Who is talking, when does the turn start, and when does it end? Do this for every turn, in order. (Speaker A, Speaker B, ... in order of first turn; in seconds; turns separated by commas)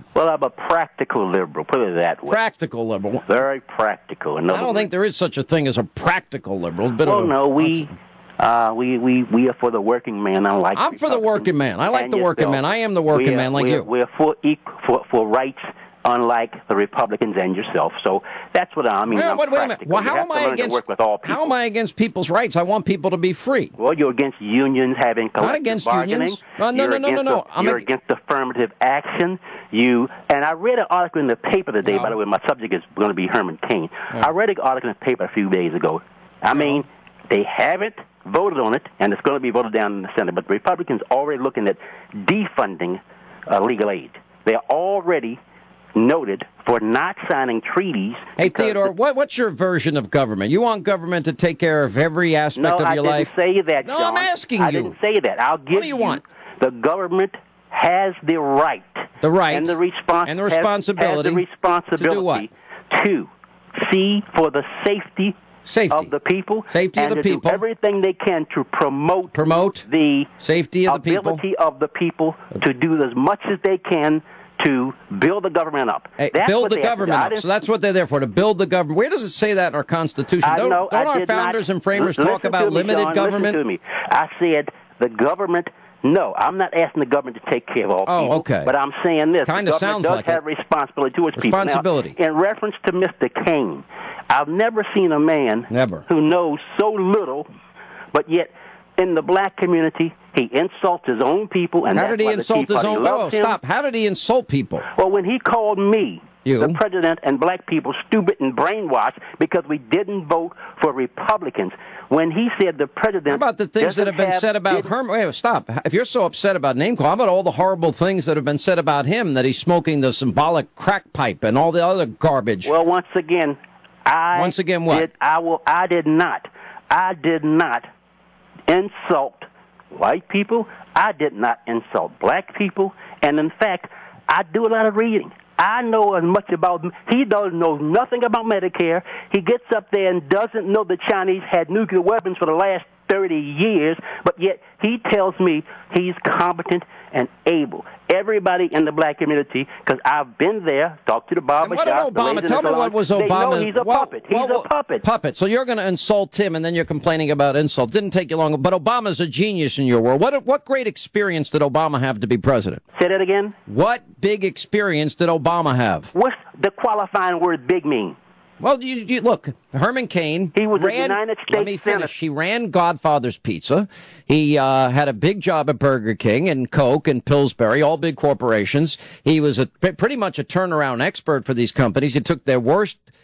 Speaker A: 0.1-2.4, Speaker B: 2.3-3.3, Speaker A: 3.3-4.9, Speaker B: 4.5-7.8, Speaker A: 7.0-21.5, Speaker B: 10.8-13.9, Speaker B: 19.1-23.8, Speaker A: 23.8-45.4, Speaker B: 25.4-27.8, Speaker A: 46.0-48.9, Speaker B: 48.4-53.3, Speaker A: 52.6-65.4, Speaker B: 53.8-55.0, Speaker B: 55.7-56.2, Speaker B: 59.2-59.7, Speaker B: 60.3-62.5, Speaker B: 65.7-66.1, Speaker A: 65.9-70.3, Speaker B: 66.7-67.6, Speaker B: 69.3-69.8, Speaker B: 70.4-71.4, Speaker A: 70.9-77.5, Speaker B: 76.2-83.6, Speaker A: 80.4-97.5, Speaker B: 88.1-88.7, Speaker B: 89.5-90.4, Speaker B: 91.4-92.2, Speaker B: 95.7-96.0, Speaker A: 98.1-103.6, Speaker B: 101.9-104.9, Speaker A: 104.9-114.9, Speaker B: 106.4-106.8, Speaker B: 113.3-122.7, Speaker A: 122.6-127.9, Speaker B: 124.3-125.1, Speaker A: 128.7-155.1, Speaker B: 151.6-162.8, Speaker A: 163.0-163.6, Speaker B: 163.7-166.1, Speaker A: 166.1-168.2, Speaker B: 168.6-183.0, Speaker A: 170.5-172.1